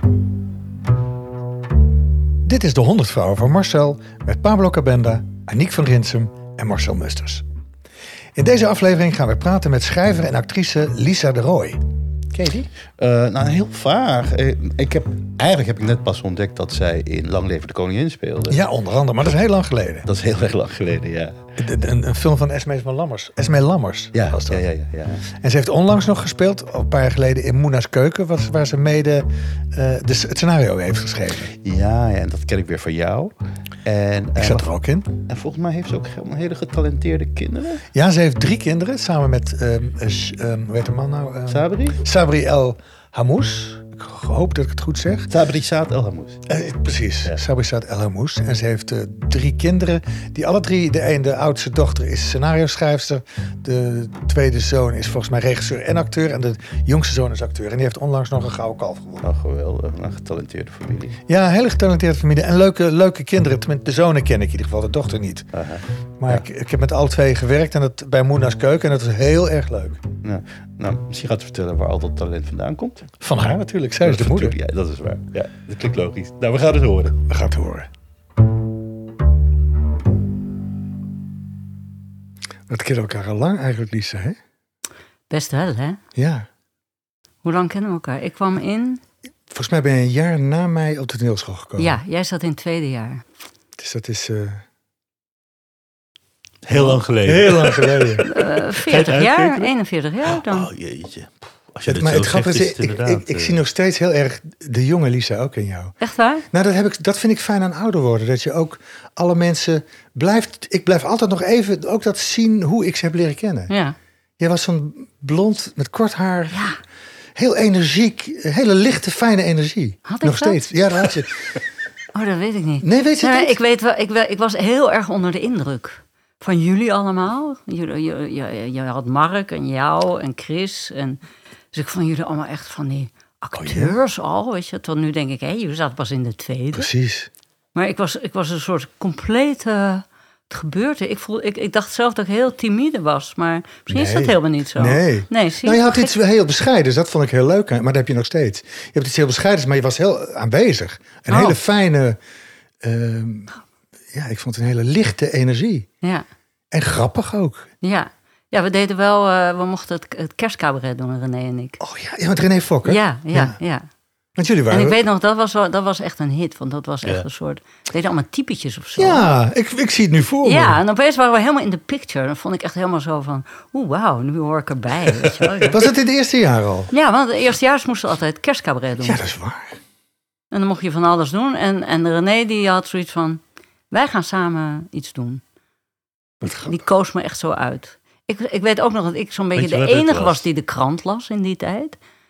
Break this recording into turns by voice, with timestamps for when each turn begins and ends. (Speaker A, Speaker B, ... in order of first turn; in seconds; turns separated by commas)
Speaker A: 2.4-7.4, Speaker A: 8.3-11.8, Speaker A: 12.3-12.7, Speaker B: 13.0-18.6, Speaker A: 18.5-20.1, Speaker B: 20.1-21.4, Speaker A: 21.6-24.6, Speaker B: 24.1-25.2, Speaker A: 25.3-31.5, Speaker B: 31.6-34.6, Speaker A: 34.4-35.1, Speaker B: 35.3-37.8, Speaker A: 37.9-45.3, Speaker B: 41.5-42.0, Speaker B: 45.3-46.4, Speaker A: 46.5-59.3, Speaker B: 59.2-61.2, Speaker A: 61.3-65.5, Speaker B: 65.5-66.4, Speaker A: 66.2-70.0, Speaker B: 70.2-73.3, Speaker A: 73.2-74.6, Speaker B: 74.0-77.2, Speaker A: 77.3-77.9, Speaker A: 82.7-84.4, Speaker C: 85.3-86.0, Speaker A: 86.1-86.5, Speaker C: 87.4-89.0, Speaker A: 89.5-92.0, Speaker C: 91.8-93.2, Speaker A: 93.8-94.6, Speaker B: 96.6-99.7, Speaker A: 96.7-98.2, Speaker C: 98.2-100.7, Speaker B: 100.3-103.6, Speaker A: 101.9-106.0, Speaker C: 106.0-106.4, Speaker A: 106.5-113.7, Speaker C: 113.7-114.0, Speaker A: 114.4-116.6, Speaker C: 116.5-116.8, Speaker A: 117.3-121.5, Speaker C: 120.1-120.6, Speaker C: 122.1-131.2, Speaker A: 122.8-123.5, Speaker C: 131.7-136.9, Speaker A: 133.6-133.9, Speaker A: 136.7-137.3, Speaker C: 137.7-146.1, Speaker A: 143.9-152.2, Speaker C: 151.3-151.6, Speaker A: 152.8-153.5, Speaker A: 154.1-155.9, Speaker A: 156.7-157.7, Speaker C: 157.8-161.8, Speaker A: 161.8-163.6, Speaker C: 162.8-163.8, Speaker A: 164.3-165.0, Speaker C: 164.7-169.3, Speaker A: 169.0-170.8, Speaker C: 170.4-175.9, Speaker A: 175.6-176.9, Speaker C: 176.9-179.2, Speaker A: 179.0-179.8, Speaker C: 180.5-185.4, Speaker A: 186.4-186.8, Speaker C: 186.6-192.0, Speaker B: 189.6-190.4